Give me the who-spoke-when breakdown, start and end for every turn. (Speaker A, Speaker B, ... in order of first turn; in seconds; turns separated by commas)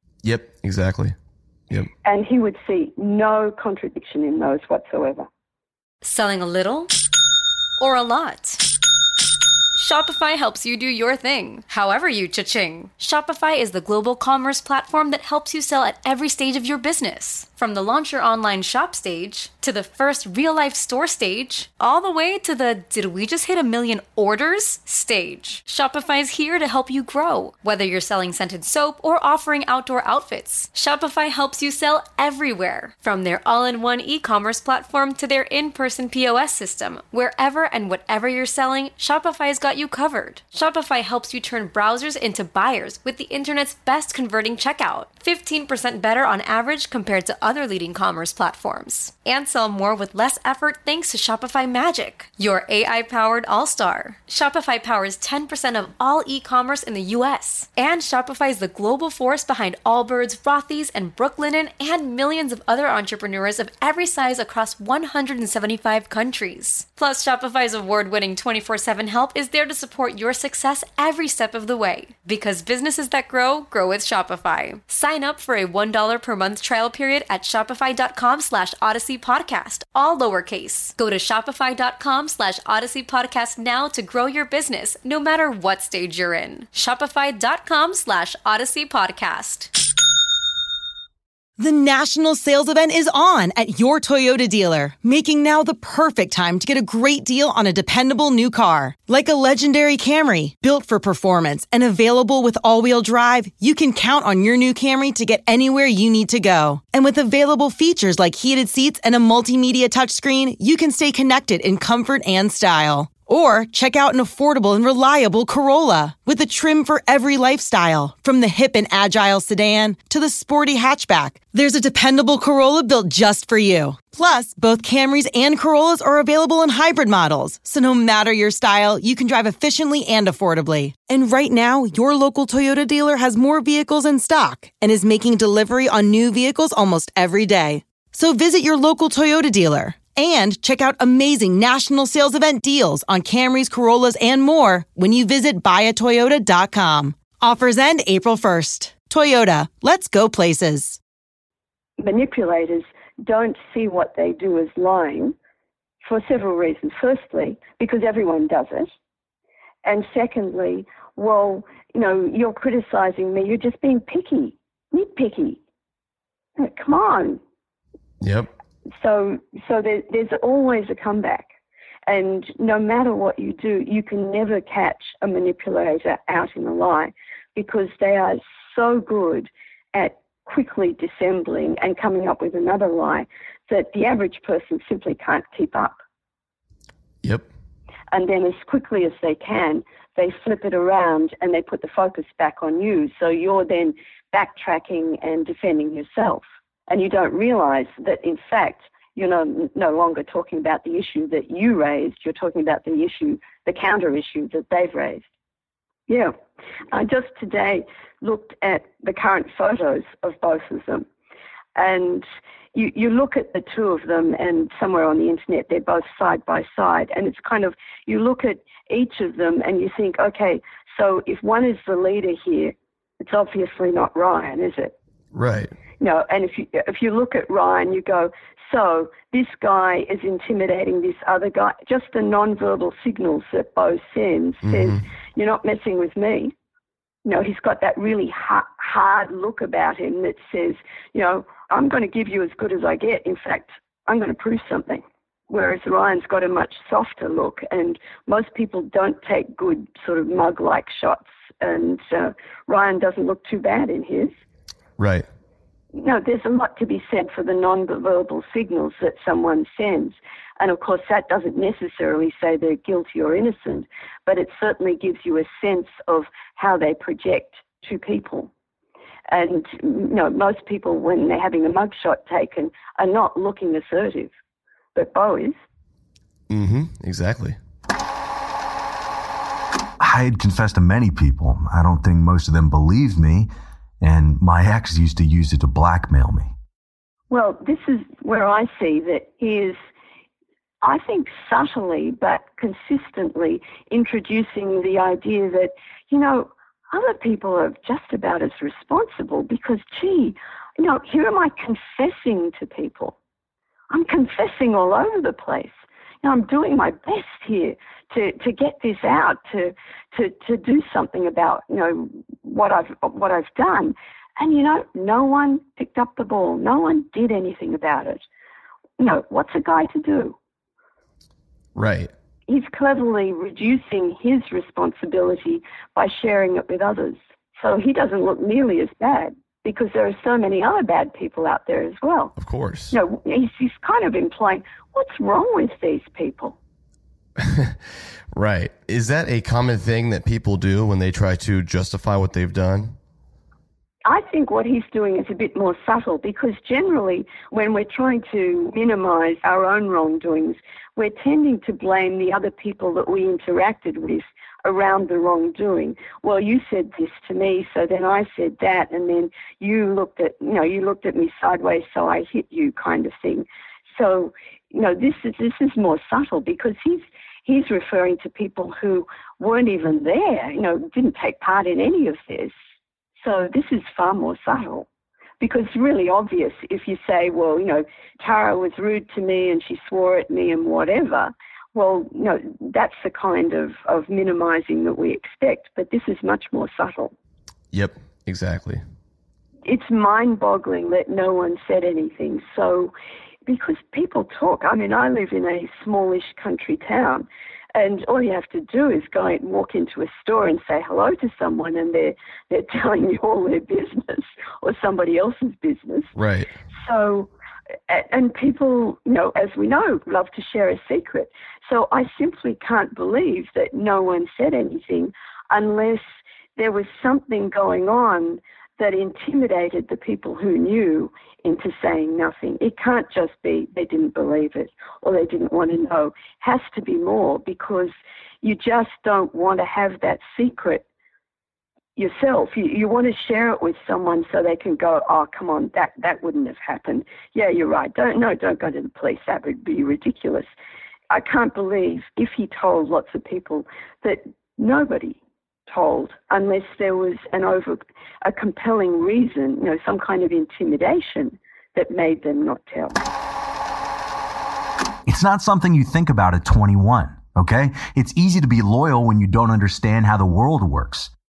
Speaker A: 0.2-1.1, Speaker B: 2.0-5.3, Speaker C: 6.0-6.9, Speaker C: 7.8-8.6, Speaker C: 9.7-89.7, Speaker D: 91.6-151.0, Speaker B: 152.0-155.3, Speaker B: 156.0-158.9, Speaker B: 159.8-165.6, Speaker B: 166.6-167.4, Speaker A: 168.2-168.5, Speaker B: 168.9-171.5, Speaker B: 172.1-186.0, Speaker B: 188.1-205.3, Speaker B: 206.1-206.3, Speaker B: 206.9-211.1, Speaker B: 211.8-224.9, Speaker A: 225.3-225.7, Speaker B: 226.0-236.5, Speaker A: 234.6-235.0, Speaker B: 237.2-254.3, Speaker A: 255.0-255.2, Speaker B: 255.9-268.5, Speaker B: 269.3-274.3, Speaker B: 274.9-275.6, Speaker A: 276.5-277.6, Speaker E: 280.0-286.5, Speaker B: 287.3-289.8, Speaker B: 290.8-303.1, Speaker B: 303.9-318.2, Speaker B: 319.0-320.4, Speaker A: 321.7-322.1, Speaker B: 322.5-332.3, Speaker A: 332.4-332.9, Speaker B: 332.9-336.6, Speaker A: 337.4-337.8, Speaker A: 338.3-342.9, Speaker B: 344.0-372.5, Speaker B: 373.2-374.9, Speaker B: 375.4-387.1, Speaker A: 387.7-388.8, Speaker B: 389.6-392.9, Speaker B: 393.5-406.1, Speaker A: 406.1-406.5, Speaker B: 406.8-407.3, Speaker B: 407.9-430.8, Speaker B: 431.9-440.5, Speaker B: 441.1-453.0, Speaker E: 455.1-461.1